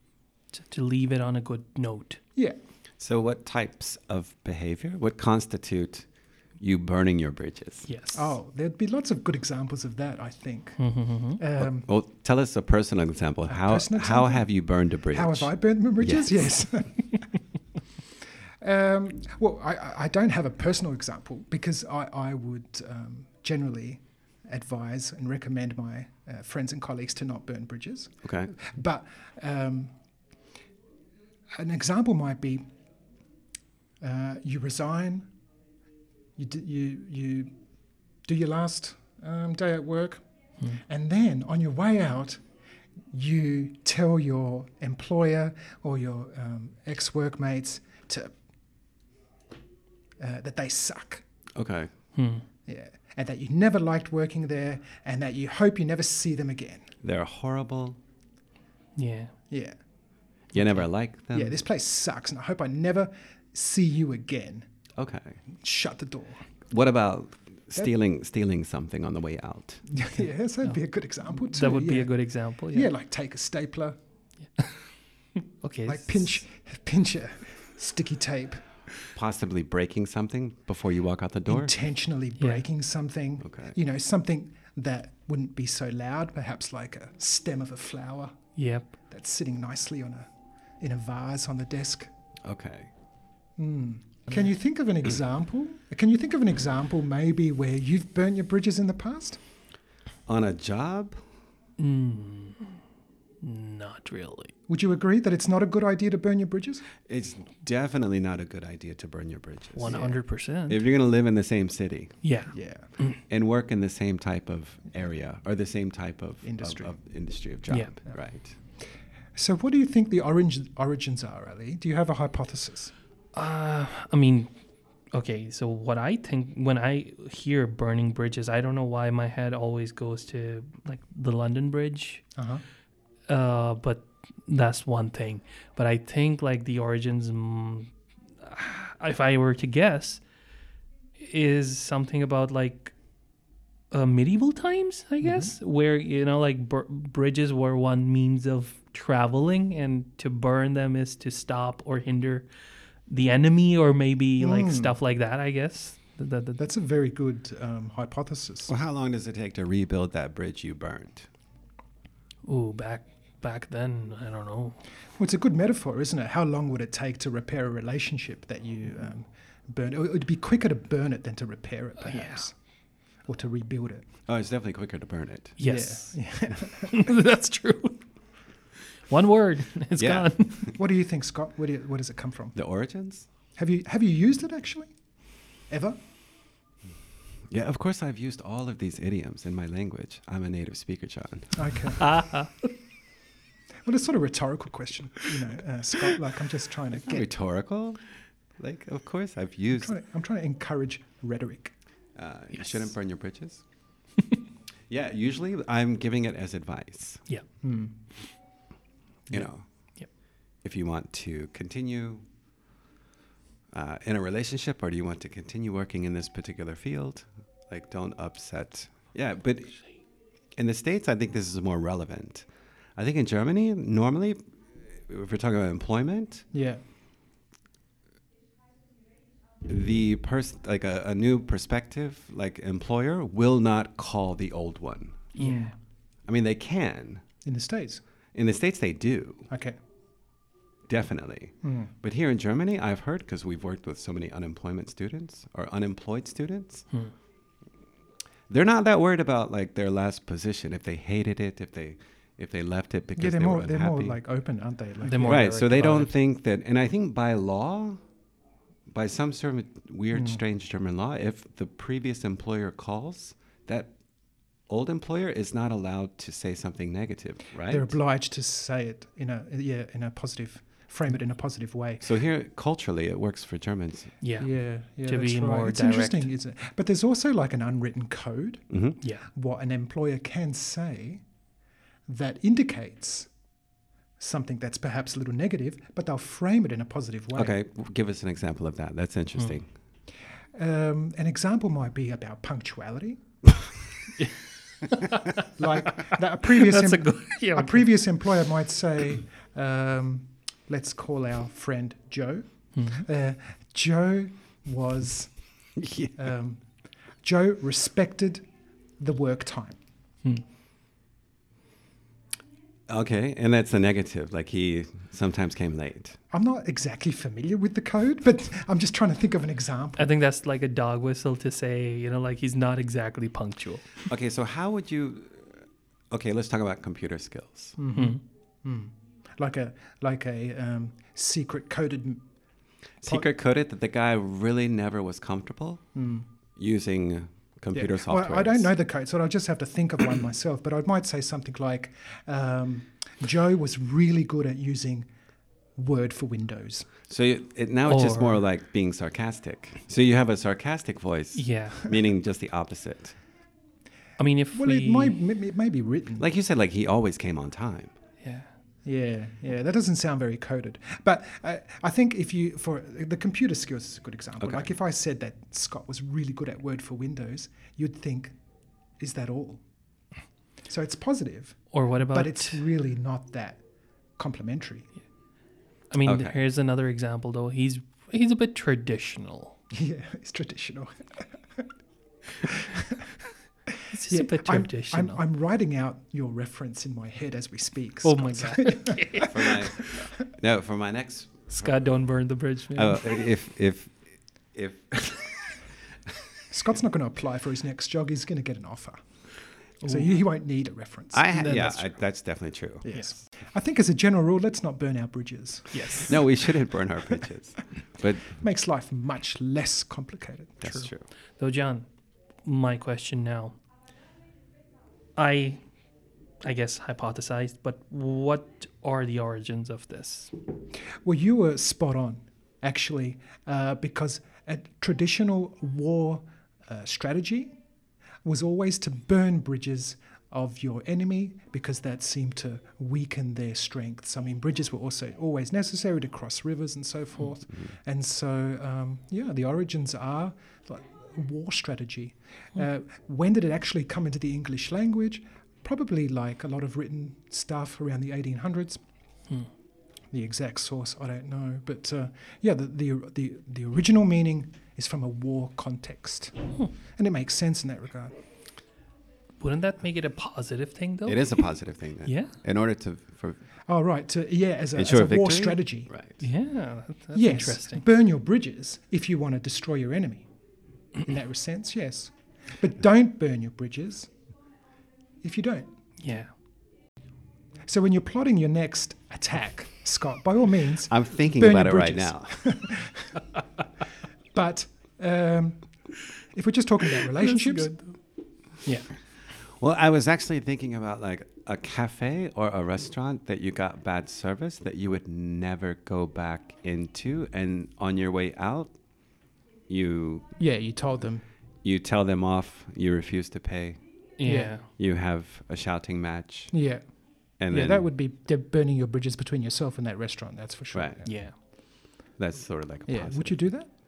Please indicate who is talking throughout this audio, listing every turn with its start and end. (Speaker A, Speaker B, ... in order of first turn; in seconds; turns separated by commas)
Speaker A: 0.5-2.2, Speaker B: 3.0-6.0, Speaker B: 6.6-7.9, Speaker A: 7.8-8.3, Speaker C: 8.1-10.8, Speaker A: 10.8-11.4, Speaker C: 11.4-11.9, Speaker B: 11.6-16.3, Speaker C: 13.5-14.6, Speaker C: 15.1-17.1, Speaker C: 18.6-29.9, Speaker B: 28.2-28.5, Speaker C: 31.6-32.6, Speaker C: 34.0-35.3, Speaker C: 36.4-37.5, Speaker C: 38.3-40.2, Speaker C: 40.9-42.4, Speaker C: 43.1-48.3, Speaker C: 50.2-51.2, Speaker B: 51.5-51.9, Speaker A: 52.1-52.4, Speaker C: 52.7-56.9, Speaker B: 57.0-58.0, Speaker A: 59.0-59.3, Speaker C: 59.5-59.8, Speaker B: 60.5-61.6, Speaker C: 61.3-64.6, Speaker B: 65.0-65.4, Speaker C: 65.6-66.4, Speaker B: 66.7-69.8, Speaker C: 69.9-72.2, Speaker A: 71.3-72.9, Speaker C: 72.7-74.0, Speaker A: 74.5-76.4, Speaker C: 75.8-78.6, Speaker B: 79.1-81.8, Speaker C: 81.5-88.3, Speaker A: 82.4-82.6, Speaker B: 83.4-83.8, Speaker A: 88.5-88.9, Speaker C: 89.1-90.3, Speaker C: 90.8-92.1, Speaker B: 92.4-92.9, Speaker C: 93.6-99.4, Speaker B: 100.3-101.2, Speaker A: 101.8-102.7, Speaker A: 103.4-104.5, Speaker C: 104.7-106.9, Speaker B: 107.0-109.9, Speaker A: 109.7-110.8, Speaker C: 109.9-110.2, Speaker B: 110.7-112.2, Speaker A: 112.2-113.2, Speaker C: 112.5-112.9, Speaker B: 113.3-118.5, Speaker C: 116.4-116.9, Speaker C: 119.3-122.9, Speaker A: 123.3-124.5, Speaker A: 125.1-132.2, Speaker C: 132.3-132.6, Speaker A: 133.3-140.2, Speaker A: 141.2-142.9, Speaker A: 143.9-152.5, Speaker C: 145.2-145.5, Speaker A: 153.1-156.6, Speaker C: 154.4-154.9, Speaker C: 156.6-158.7, Speaker B: 158.7-161.3, Speaker A: 162.4-164.8, Speaker C: 165.2-172.5, Speaker A: 172.0-172.4, Speaker C: 173.2-174.0, Speaker B: 174.3-175.6, Speaker A: 175.6-178.0, Speaker C: 175.6-176.9, Speaker A: 179.1-180.7, Speaker B: 180.0-180.7, Speaker C: 180.8-182.5, Speaker B: 182.5-183.3, Speaker C: 183.6-184.9, Speaker C: 185.7-186.0, Speaker B: 187.5-192.0, Speaker C: 191.6-192.0, Speaker A: 192.0-192.7, Speaker C: 193.8-197.3, Speaker B: 196.9-198.0, Speaker B: 198.6-199.9, Speaker C: 199.7-201.7, Speaker B: 202.2-203.6, Speaker B: 204.9-207.2, Speaker C: 207.6-207.9, Speaker B: 209.3-209.7, Speaker B: 210.6-212.2, Speaker B: 213.7-219.9, Speaker B: 220.6-222.4, Speaker B: 223.0-226.5, Speaker C: 226.5-226.8, Speaker B: 229.6-235.3, Speaker A: 235.3-235.7, Speaker C: 235.4-235.7, Speaker B: 236.3-237.2, Speaker C: 237.4-238.0, Speaker B: 238.3-239.5, Speaker C: 239.5-239.8, Speaker B: 240.9-246.8, Speaker C: 241.6-241.9, Speaker B: 248.5-254.2, Speaker C: 253.2-255.5, Speaker A: 255.0-256.1, Speaker B: 255.2-258.0, Speaker B: 258.9-263.9, Speaker C: 260.1-260.4, Speaker B: 264.7-267.9, Speaker C: 267.7-272.0, Speaker B: 272.0-274.1, Speaker A: 274.2-276.3, Speaker C: 274.4-278.6, Speaker B: 278.7-279.0, Speaker A: 279.0-279.3, Speaker C: 279.3-281.2, Speaker C: 282.1-283.3, Speaker C: 284.2-287.6, Speaker B: 287.3-289.7, Speaker C: 290.5-293.2, Speaker A: 294.8-295.4, Speaker C: 295.6-305.3, Speaker A: 296.5-297.9, Speaker A: 302.7-303.1, Speaker B: 305.8-306.1, Speaker C: 306.1-306.6, Speaker C: 307.2-308.4, Speaker C: 309.0-309.8, Speaker B: 312.9-316.2, Speaker C: 316.3-320.1, Speaker A: 320.0-324.0, Speaker B: 324.1-327.8, Speaker C: 327.8-332.2, Speaker B: 333.0-335.8, Speaker C: 335.9-336.2, Speaker B: 336.6-338.7, Speaker C: 337.7-345.1, Speaker C: 345.8-346.9, Speaker B: 347.1-353.1, Speaker A: 347.8-348.4, Speaker A: 351.3-351.9, Speaker A: 354.2-355.2, Speaker C: 354.5-356.3, Speaker B: 356.2-357.9, Speaker A: 358.2-358.5, Speaker C: 358.8-368.3, Speaker B: 364.4-364.7, Speaker C: 369.0-369.6, Speaker C: 370.7-373.6, Speaker A: 371.7-372.6, Speaker C: 374.2-374.9, Speaker A: 375.9-379.6, Speaker B: 376.0-376.4, Speaker C: 379.7-381.6, Speaker C: 382.4-382.9, Speaker A: 383.9-385.2, Speaker C: 384.1-390.2, Speaker A: 388.0-390.1, Speaker B: 389.2-389.9, Speaker B: 390.4-391.7, Speaker A: 391.5-393.0, Speaker B: 392.7-393.9, Speaker B: 394.5-395.5, Speaker C: 396.5-399.0, Speaker C: 399.8-401.9, Speaker A: 399.8-400.1, Speaker B: 401.1-402.8, Speaker C: 402.8-406.2, Speaker A: 402.9-403.2, Speaker A: 405.7-406.2, Speaker B: 406.1-408.4, Speaker C: 408.4-410.7, Speaker B: 410.6-411.0, Speaker A: 410.6-411.9, Speaker A: 412.4-413.6, Speaker A: 415.1-415.6, Speaker A: 416.4-420.3, Speaker C: 421.0-427.5, Speaker C: 428.2-448.8, Speaker C: 450.1-458.1, Speaker A: 459.4-461.5, Speaker B: 461.1-463.4, Speaker A: 462.0-462.4, Speaker C: 463.7-465.9, Speaker B: 464.7-466.2, Speaker A: 466.2-467.8, Speaker C: 467.1-470.2, Speaker C: 471.0-474.1, Speaker C: 475.2-475.7, Speaker A: 476.0-476.3, Speaker C: 477.7-483.1, Speaker B: 480.9-482.4, Speaker C: 484.3-485.7, Speaker C: 486.3-487.8, Speaker A: 487.2-488.0, Speaker A: 488.6-488.9, Speaker B: 489.6-498.8, Speaker B: 499.7-500.3, Speaker C: 500.4-501.2, Speaker B: 501.6-503.8, Speaker A: 504.2-504.7, Speaker C: 504.2-504.5, Speaker B: 504.7-506.6, Speaker C: 506.5-506.8, Speaker B: 507.4-507.9, Speaker C: 507.5-511.2, Speaker B: 510.7-511.0, Speaker A: 511.0-511.4, Speaker B: 512.2-513.5, Speaker C: 512.9-513.7